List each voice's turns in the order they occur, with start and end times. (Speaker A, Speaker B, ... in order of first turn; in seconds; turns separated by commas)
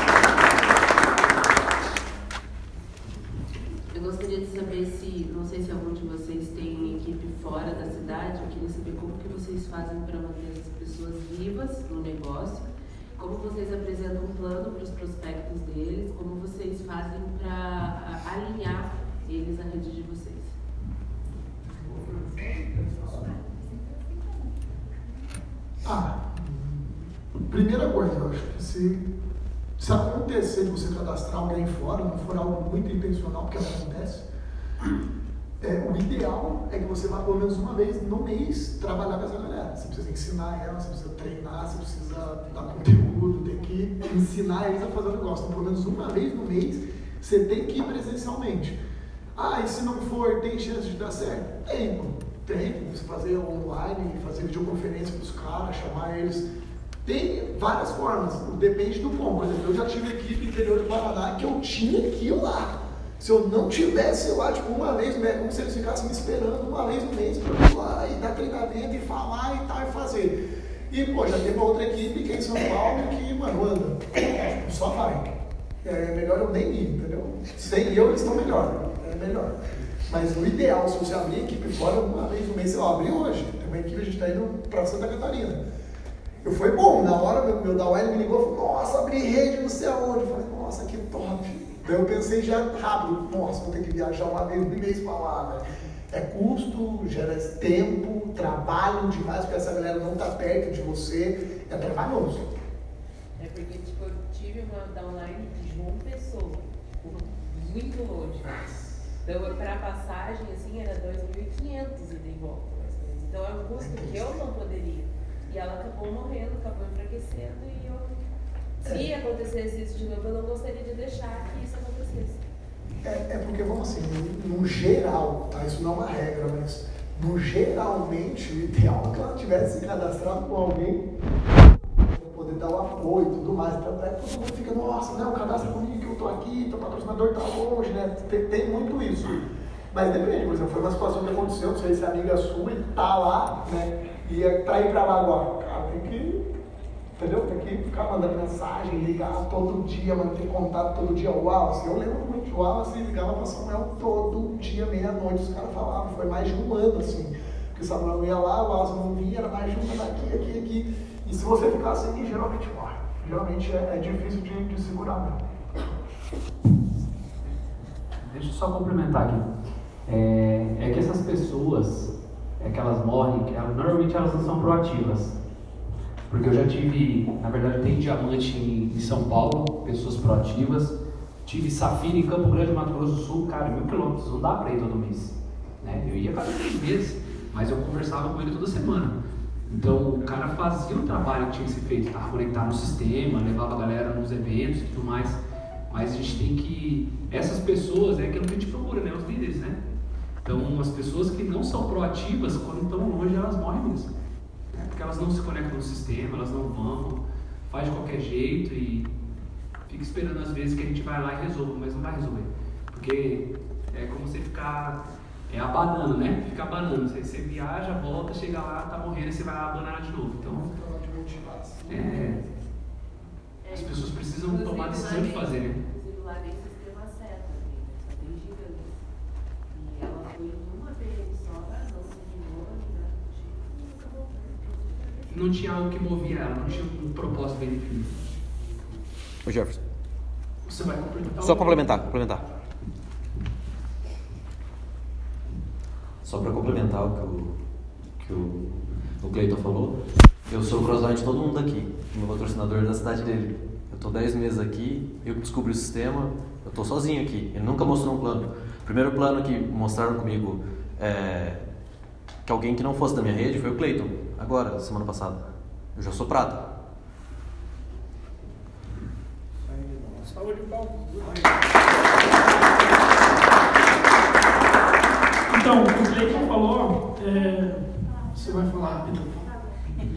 Speaker A: 3.9-20.5, Speaker B: 21.8-23.1, Speaker B: 25.8-26.9, Speaker B: 27.5-29.0, Speaker B: 29.8-34.3, Speaker B: 35.6-48.8, Speaker B: 49.4-56.5, Speaker B: 57.0-70.4, Speaker B: 70.9-79.5, Speaker B: 80.1-85.6, Speaker B: 86.4-102.5, Speaker A: 103.4-118.1, Speaker B: 113.8-114.4, Speaker A: 118.8-122.4, Speaker B: 118.8-119.2, Speaker B: 123.0-131.1, Speaker B: 131.8-146.4, Speaker B: 147.2-165.4, Speaker C: 168.2-169.4, Speaker C: 170.1-175.3, Speaker C: 176.3-199.8, Speaker C: 200.4-204.1, Speaker C: 204.7-209.1, Speaker C: 209.9-220.7, Speaker B: 220.5-222.1, Speaker A: 221.8-222.7, Speaker C: 221.9-222.4, Speaker A: 223.6-229.0, Speaker C: 223.7-225.8, Speaker A: 229.7-235.3, Speaker C: 235.3-238.2, Speaker D: 239.4-239.8, Speaker E: 240.7-242.1, Speaker D: 241.4-242.4, Speaker D: 246.2-247.5, Speaker D: 248.2-249.9, Speaker D: 250.5-261.6, Speaker D: 262.4-265.4, Speaker D: 265.9-266.6, Speaker E: 270.2-271.4, Speaker E: 275.5-277.8, Speaker E: 278.3-279.5